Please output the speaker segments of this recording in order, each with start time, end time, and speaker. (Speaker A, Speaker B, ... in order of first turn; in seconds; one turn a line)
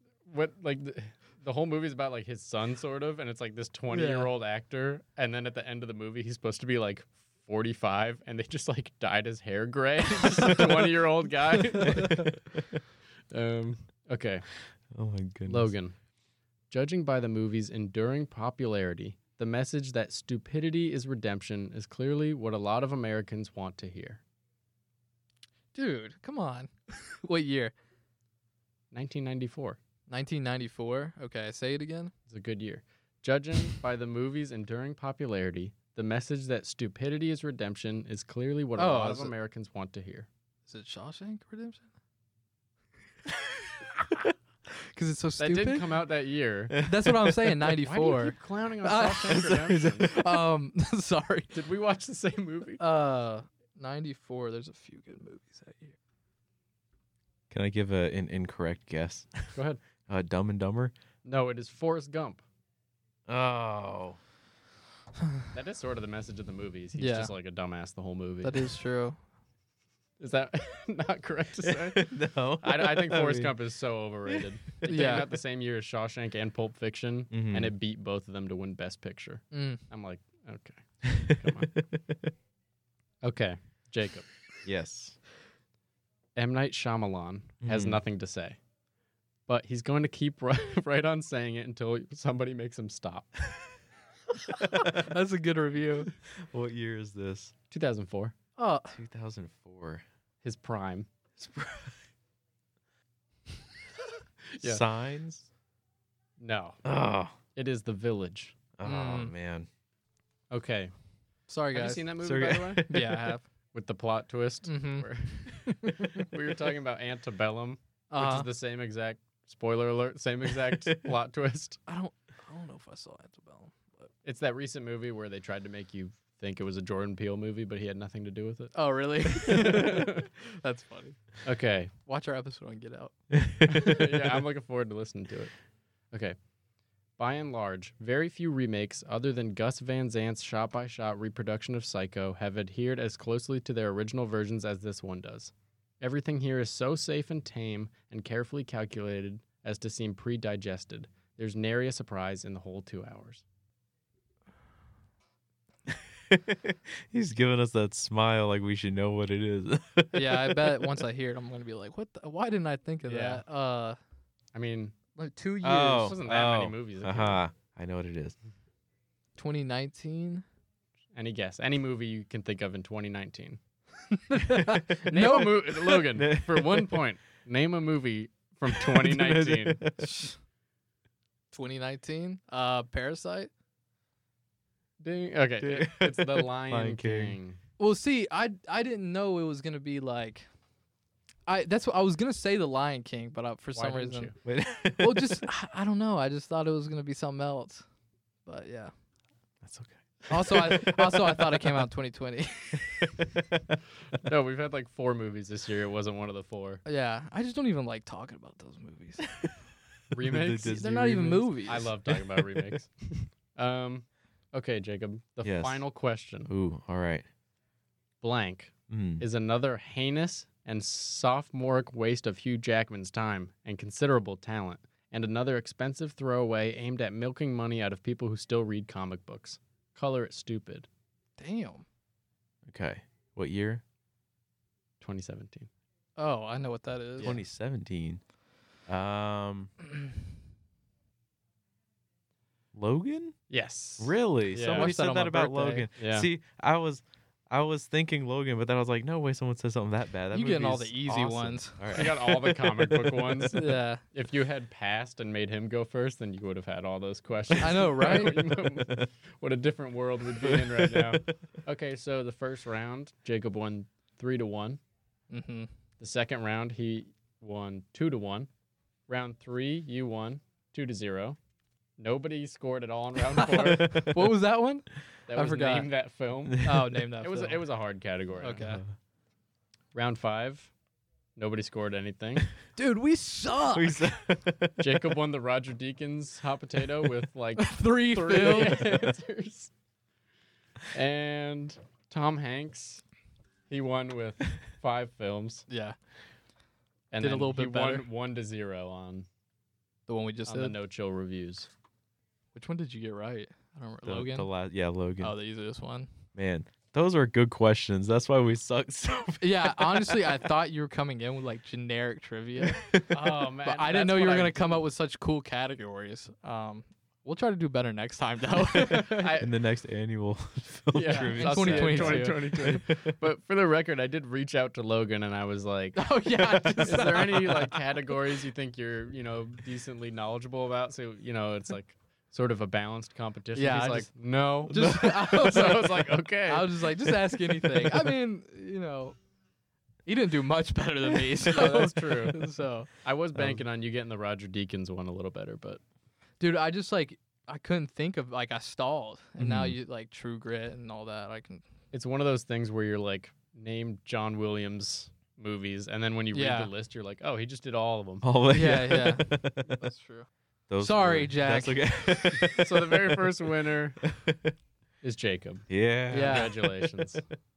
Speaker A: 0.3-12.4
Speaker B: 3.9-4.3
Speaker C: 11.8-12.8
Speaker A: 13.3-14.5
Speaker C: 14.9-15.7
Speaker A: 15.5-15.9
Speaker A: 16.7-24.2
Speaker B: 25.7-27.7
Speaker A: 28.9-29.8
Speaker B: 30.1-32.1
Speaker A: 32.3-40.3
Speaker B: 38.8-39.3
Speaker B: 40.7-41.9
Speaker B: 44.7-45.9
Speaker A: 45.4-46.9
Speaker C: 46.7-47.7
Speaker B: 46.8-51.6
Speaker A: 47.8-50.1
Speaker C: 49.3-50.3
Speaker A: 51.5-52.8
Speaker B: 52.8-55.9
Speaker C: 57.5-60.9
Speaker A: 59.5-59.8
Speaker A: 61.2-62.4
Speaker C: 63.3-64.2
Speaker A: 65.5-68.6
Speaker B: 66.9-67.3
Speaker B: 68.4-69.2
Speaker A: 70.2-81.7
Speaker C: 71.6-73.5
Speaker B: 74.8-75.3
Speaker C: 77.3-77.7
Speaker B: 79.5-79.8
Speaker C: 81.0-82.3
Speaker A: 83.2-84.3
Speaker C: 84.6-85.2
Speaker A: 86.4-88.6
Speaker C: 87.6-88.0
Speaker A: 89.5-93.4
Speaker B: 94.4-96.1
Speaker C: 94.6-95.1
Speaker C: 96.3-97.5
Speaker A: 97.7-98.4
Speaker B: 98.6-99.0
Speaker C: 98.9-100.0
Speaker A: 100.4-101.1
Speaker C: 101.4-102.0
Speaker A: 104.5-104.8
Speaker C: 104.6-105.5
Speaker A: 106.4-106.8
Speaker C: 106.8-107.4
Speaker A: 107.6-108.6
Speaker C: 108.8-109.7
Speaker B: 108.8-109.3
Speaker A: 110.5-110.9
Speaker B: 111.5-112.1
Speaker A: 111.7-113.2
Speaker C: 112.2-113.3
Speaker B: 112.9-113.4
Speaker A: 113.7-121.8
Speaker B: 114.7-115.1
Speaker B: 115.7-116.1
Speaker B: 118.1-118.5
Speaker C: 120.5-121.1
Speaker B: 121.9-124.1
Speaker A: 124.2-130.3
Speaker B: 128.7-131.2
Speaker C: 129.6-129.9
Speaker A: 131.4-131.9
Speaker B: 132.0-133.1
Speaker C: 133.3-134.1
Speaker A: 133.7-135.6
Speaker A: 136.1-136.4
Speaker A: 137.2-153.4
Speaker C: 155.9-161.0
Speaker B: 160.1-164.0
Speaker A: 163.1-163.4
Speaker A: 164.5-165.0
Speaker B: 165.2-166.2
Speaker C: 165.6-168.4
Speaker A: 165.9-167.4
Speaker B: 169.4-170.4
Speaker A: 171.1-173.6
Speaker B: 174.1-175.7
Speaker C: 174.5-177.0
Speaker A: 175.0-179.9
Speaker C: 178.7-180.3
Speaker B: 180.0-180.4
Speaker B: 181.5-183.5
Speaker A: 185.0-187.6
Speaker C: 185.6-187.4
Speaker B: 187.8-190.5
Speaker B: 191.5-194.3
Speaker A: 193.7-194.4
Speaker C: 194.4-195.5
Speaker B: 195.0-197.8
Speaker B: 198.4-198.9
Speaker C: 199.6-201.8
Speaker B: 200.3-203.2
Speaker C: 202.7-203.8
Speaker A: 204.2-206.8
Speaker B: 206.8-209.3
Speaker A: 210.1-216.5
Speaker C: 210.2-210.9
Speaker B: 210.6-211.9
Speaker C: 215.4-215.8
Speaker C: 216.5-217.3
Speaker A: 218.2-230.9
Speaker C: 218.9-219.2
Speaker B: 231.4-231.8
Speaker C: 232.7-233.8
Speaker A: 235.0-235.7
Speaker B: 236.2-237.4
Speaker C: 237.2-238.2
Speaker C: 238.9-239.7
Speaker C: 242.7-243.4
Speaker A: 243.5-244.9
Speaker C: 244.0-253.3
Speaker B: 244.7-245.9
Speaker A: 246.0-246.3
Speaker B: 250.3-251.9
Speaker A: 251.9-264.8
Speaker B: 253.5-254.0
Speaker B: 257.6-258.4
Speaker C: 258.0-259.1
Speaker C: 260.4-261.2
Speaker B: 265.3-265.7
Speaker A: 266.0-268.5
Speaker A: 269.1-271.4
Speaker A: 272.0-274.0
Speaker B: 273.4-275.9
Speaker C: 273.6-274.3
Speaker A: 275.3-276.7
Speaker C: 276.4-277.0
Speaker B: 276.6-277.6
Speaker A: 277.2-278.7
Speaker B: 278.4-278.8
Speaker C: 278.6-278.9
Speaker A: 279.9-280.7
Speaker A: 281.4-282.5
Speaker B: 282.8-284.1
Speaker C: 283.7-285.1
Speaker A: 284.8-289.7
Speaker B: 287.6-289.1
Speaker A: 290.9-293.0
Speaker A: 293.7-295.6
Speaker B: 295.7-295.9
Speaker A: 297.1-299.3
Speaker B: 297.2-298.1
Speaker B: 300.1-300.8
Speaker A: 300.5-301.7
Speaker B: 302.6-304.5
Speaker C: 304.1-305.4
Speaker B: 305.2-306.1
Speaker C: 306.4-310.3
Speaker B: 309.4-319.4
Speaker C: 312.7-313.1
Speaker A: 313.1-314.8
Speaker C: 318.7-323.2
Speaker A: 318.9-319.6
Speaker A: 320.9-336.9
Speaker B: 321.1-322.8
Speaker B: 325.9-327.7
Speaker B: 333.6-334.1
Speaker B: 334.7-339.2
Speaker C: 334.7-335.8
Speaker C: 337.1-338.1
Speaker B: 340.1-342.9
Speaker A: 341.4-342.4
Speaker A: 343.0-345.8
Speaker B: 346.4-351.6
Speaker C: 349.4-349.8
Speaker A: 351.9-358.3
Speaker B: 356.3-356.7
Speaker C: 358.2-359.8
Speaker B: 358.5-360.3
Speaker C: 360.7-364.6
Speaker B: 360.8-362.4
Speaker A: 362.5-364.0
Speaker A: 365.0-367.2
Speaker C: 365.7-367.2
Speaker B: 366.1-366.6